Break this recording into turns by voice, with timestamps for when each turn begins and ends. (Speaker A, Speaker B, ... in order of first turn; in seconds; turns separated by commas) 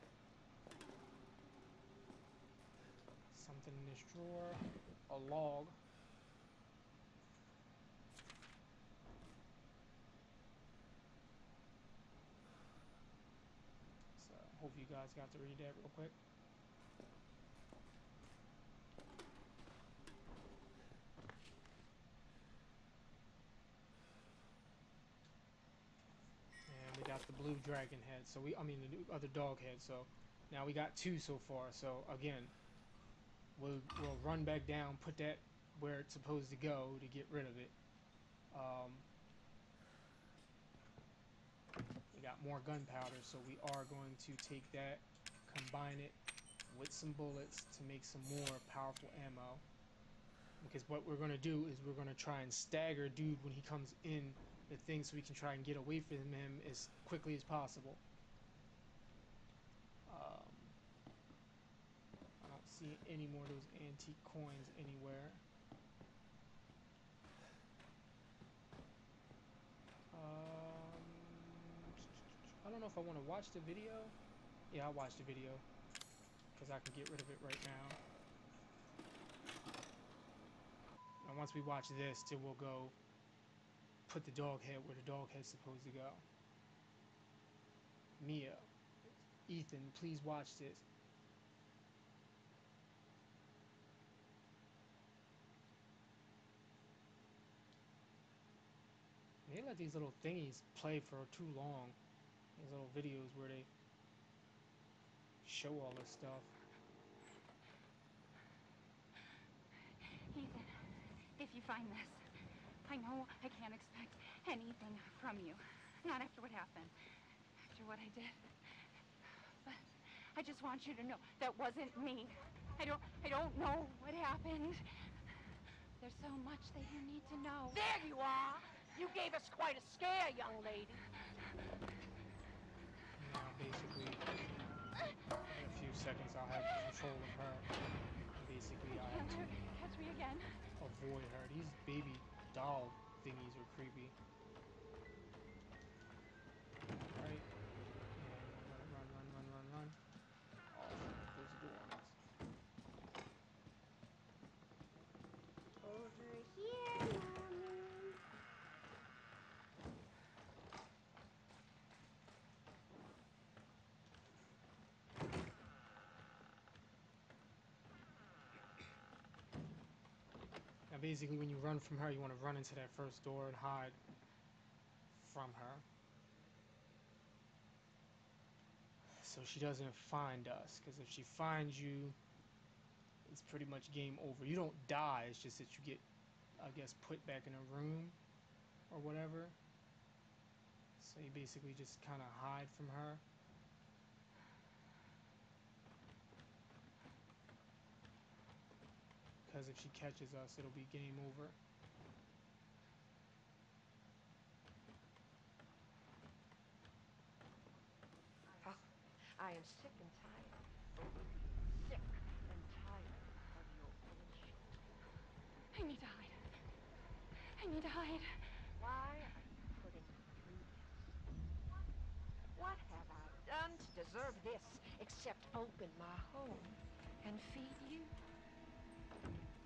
Speaker A: 3.3-5.8, Speaker A: 14.2-16.1, Speaker A: 26.7-32.5, Speaker A: 33.5-37.7, Speaker A: 38.5-39.0, Speaker A: 42.1-46.2, Speaker A: 46.7-49.6, Speaker A: 50.6-58.0, Speaker A: 60.1-60.7, Speaker A: 62.4-65.4, Speaker A: 70.1-74.1, Speaker A: 74.7-75.6, Speaker A: 76.5-78.0, Speaker A: 81.2-82.9, Speaker A: 84.1-86.2, Speaker A: 88.2-90.8, Speaker A: 99.5-102.0, Speaker A: 102.5-103.7, Speaker A: 105.4-106.5, Speaker B: 110.3-112.2, Speaker B: 112.8-116.9, Speaker B: 117.7-118.5, Speaker B: 119.6-124.8, Speaker B: 126.0-127.8, Speaker C: 127.7-131.0, Speaker A: 133.2-134.4, Speaker A: 135.5-137.7, Speaker A: 138.3-139.5, Speaker B: 138.9-140.6, Speaker A: 140.8-144.1, Speaker A: 147.1-147.5, Speaker A: 148.2-150.0, Speaker A: 150.7-152.2, Speaker B: 155.8-157.9, Speaker A: 170.9-174.0, Speaker A: 175.1-175.8, Speaker A: 179.1-182.2, Speaker A: 183.2-186.0, Speaker A: 186.6-188.2, Speaker A: 188.9-189.6, Speaker A: 191.0-193.2, Speaker A: 199.4-201.6, Speaker C: 208.6-210.6, Speaker C: 211.6-214.8, Speaker B: 215.7-216.4, Speaker B: 217.5-218.5, Speaker C: 218.8-221.2, Speaker C: 222.5-228.1